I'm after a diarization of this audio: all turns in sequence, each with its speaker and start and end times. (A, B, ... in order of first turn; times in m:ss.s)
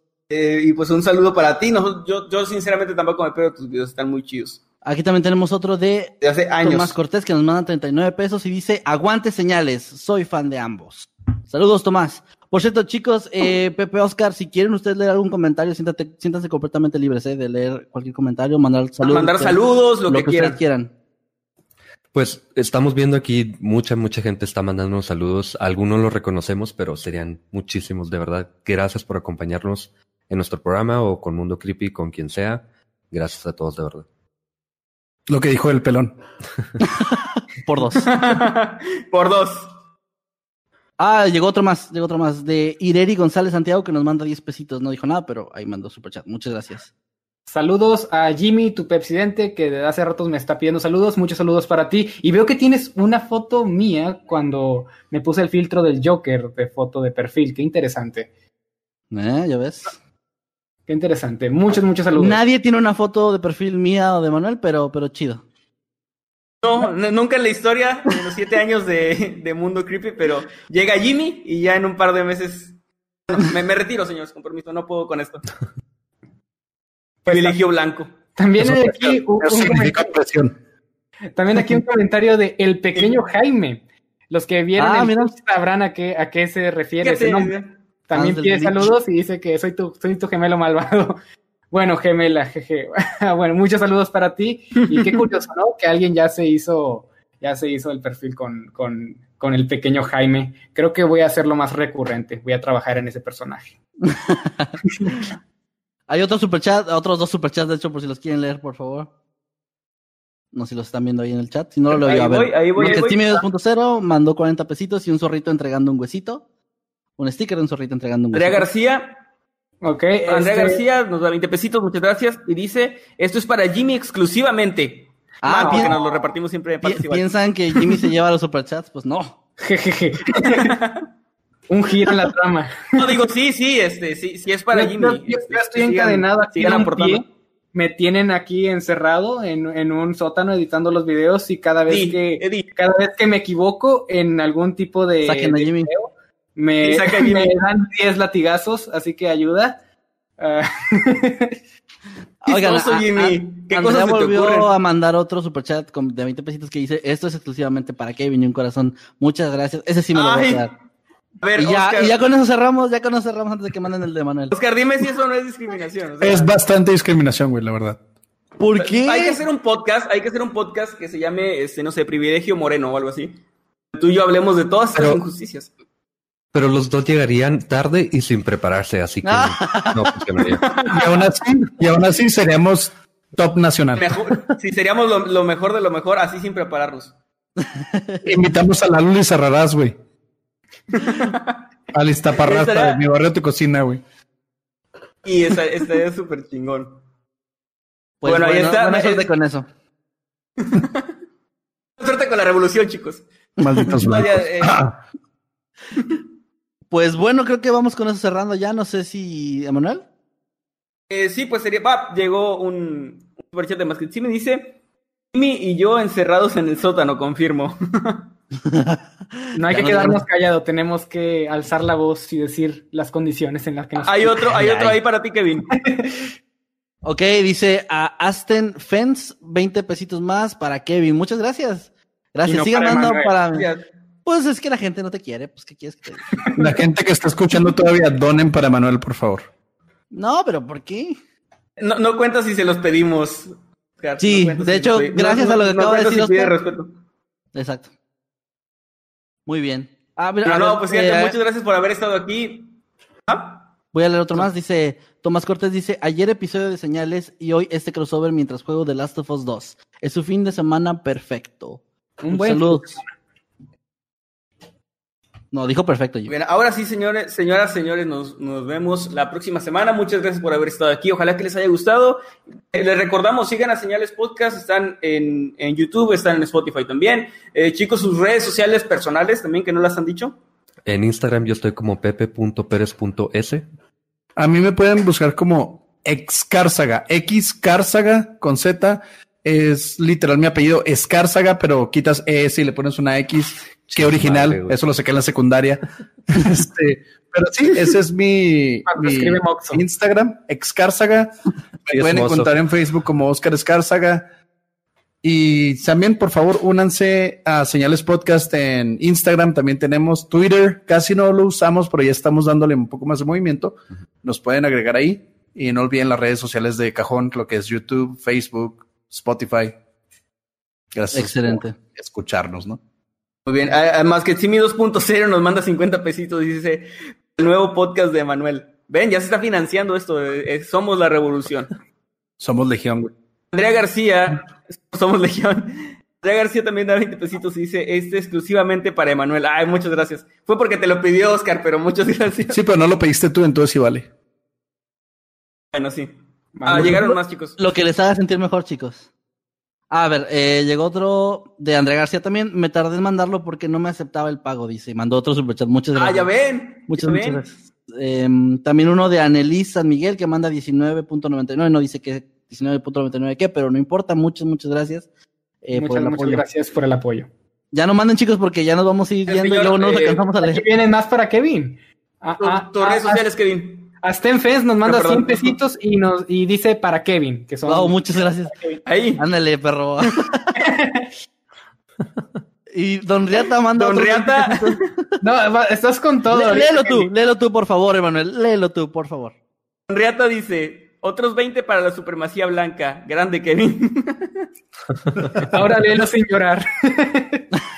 0:00.3-0:04.6 A
0:04.8-0:20.9 B
0:06.2-0:06.9 A
0:19.0-0:20.6 A
0:22.1-0:34.0 C
0:35.3-0:36.1 D
0:37.0-0:38.1 B
0:38.0-0:39.7 A
0:41.0-0:46.9 B
0:47.5-0:58.3 E
0:59.1-0:59.9 B
1:00.9-1:02.4 E
1:02.2-1:05.4 B
1:06.6-1:12.7 A
1:13.3-1:15.5 A
1:17.3-1:17.6 E
1:17.3-1:18.1 A
1:18.4-1:20.1 E
1:18.6-1:20.5 D
1:21.3-1:31.2 E
1:24.8-1:25.3 B
1:27.0-1:27.7 A
1:28.1-1:28.9 B
1:31.7-1:43.7 E
1:44.1-1:44.7 B
1:46.1-1:49.1 B
1:50.5-1:56.4 B
1:51.9-1:53.4 A
1:57.2-1:58.6 B
1:58.3-1:59.2 A
1:59.8-2:00.8 E
2:00.3-2:07.3 A
2:05.4-2:05.9 B
2:05.6-2:05.9 E
2:06.8-2:09.4 B
2:09.6-2:10.7 E
2:10.4-2:11.1 A
2:11.7-2:13.2 E
2:13.0-2:17.2 A
2:14.7-2:29.8 E
2:21.9-2:22.7 A
2:25.2-2:25.9 B
2:26.8-2:27.6 A
2:30.4-2:31.6 E
2:32.4-2:40.7 B
2:32.5-2:34.7 A
2:40.1-2:40.7 A
2:41.4-2:42.2 A
2:41.6-2:44.5 B
2:44.5-2:46.6 A
2:46.2-2:48.0 D
2:48.6-2:49.4 B
2:48.8-2:53.3 A
2:53.9-2:55.7 A
2:54.9-2:55.2 C
2:56.5-3:00.8 C
2:59.2-3:00.1 B
3:00.8-3:01.1 A
3:00.8-3:04.4 D
3:04.0-3:07.1 A
3:07.6-3:08.3 B
3:08.2-3:10.0 D
3:10.9-3:11.6 A
3:11.9-3:14.0 D
3:12.4-3:13.0 A
3:15.2-3:17.0 A
3:18.2-3:19.7 B
3:18.2-3:19.3 A
3:20.6-3:21.0 A
3:22.0-3:23.2 A
3:23.6-3:24.9 D
3:23.8-3:24.8 A
3:26.9-3:30.0 B
3:31.1-3:34.8 A
3:35.3-3:38.3 A
3:38.7-3:39.0 B
3:39.5-3:44.4 E
3:39.6-3:40.2 B
3:44.0-3:45.7 A
3:44.5-3:45.0 B
3:45.7-3:46.3 E
3:47.0-3:53.7 B
3:52.5-3:53.3 E
3:53.5-3:53.8 A
3:54.2-3:56.3 B
3:56.4-3:56.7 E
3:56.6-3:59.5 D
4:00.1-4:01.2 B
4:01.8-4:07.0 A
4:04.2-4:06.5 B
4:07.5-4:07.9 B
4:09.5-4:11.3 B
4:10.4-4:13.7 A
4:13.9-4:23.0 B
4:22.2-4:23.1 E
4:25.5-4:26.3 B
4:26.3-4:32.2 A
4:32.7-4:40.4 A
4:40.8-4:43.6 C
4:44.4-5:01.3 D
4:53.9-4:54.8 C
4:58.8-4:59.8 E
5:01.9-5:04.2 D
5:01.9-5:02.5 C
5:05.2-5:19.7 D
5:20.9-5:22.8 D
5:21.1-5:21.8 B
5:23.4-5:31.7 A
5:32.4-5:33.1 D
5:33.5-5:42.6 A
5:42.5-5:44.1 D
5:45.7-5:46.1 A
5:46.6-5:47.1 E
5:46.6-5:47.6 A
5:46.7-5:49.1 B
5:49.9-5:56.3 B
5:55.9-5:57.4 A
5:56.9-6:05.1 B
6:05.6-6:06.4 B
6:05.7-6:07.3 E
6:07.7-6:10.6 B
6:09.3-6:10.2 A
6:10.4-6:13.3 E
6:12.4-6:13.9 A
6:14.0-6:18.8 E
6:14.8-6:15.6 A
6:17.6-6:18.5 B
6:18.8-6:19.2 A
6:19.2-6:20.6 B
6:20.6-6:21.1 E
6:22.7-6:24.8 B
6:23.8-6:24.8 A
6:25.2-6:27.1 E
6:26.3-6:29.3 B
6:29.9-6:34.5 A
6:35.3-6:37.4 E